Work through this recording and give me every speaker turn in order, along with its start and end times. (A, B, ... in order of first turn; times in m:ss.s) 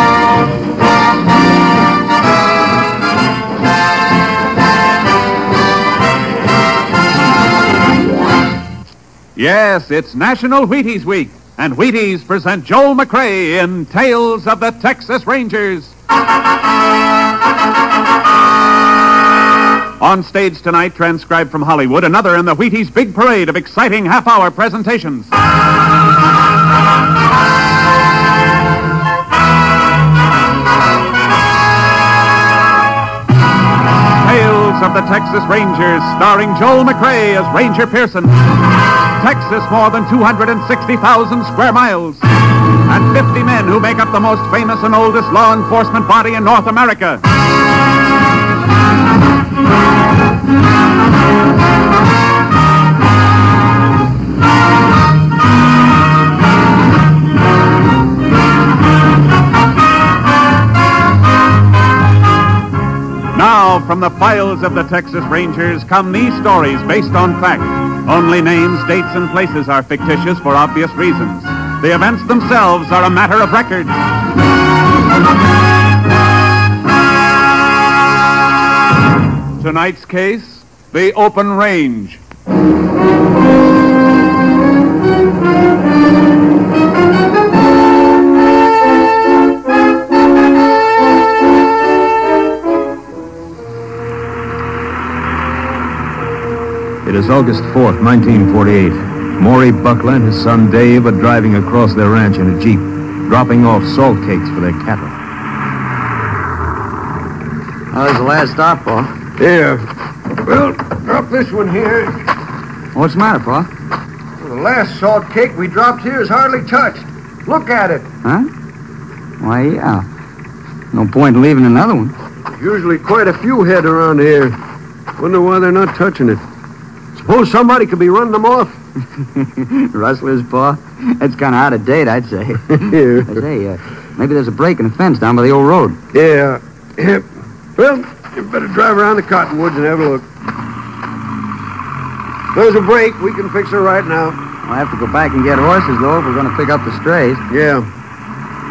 0:09.4-0:15.9 A
0:20.0-0:25.3 A
0:34.2-0:38.5 A
0:39.1-0:42.3 A
0:42.9-0:47.2 A
1:03.3-1:14.0 A
1:19.6-1:22.2 A
1:37.1-1:45.1 B
1:47.9-1:49.2 C
1:49.4-1:49.9 D
1:50.4-1:52.2 D
1:53.0-1:53.7 C
1:54.4-1:58.1 D
1:58.2-1:58.5 C
1:59.4-2:00.1 C
2:00.9-2:02.2 C
2:02.6-2:04.6 D
2:05.2-2:06.4 D
2:07.2-2:08.8 D
2:09.4-2:16.0 C
2:12.8-2:13.4 D
2:16.1-2:20.3 D
2:22.5-2:24.4 D
2:24.6-2:27.4 C
2:27.5-2:27.9 D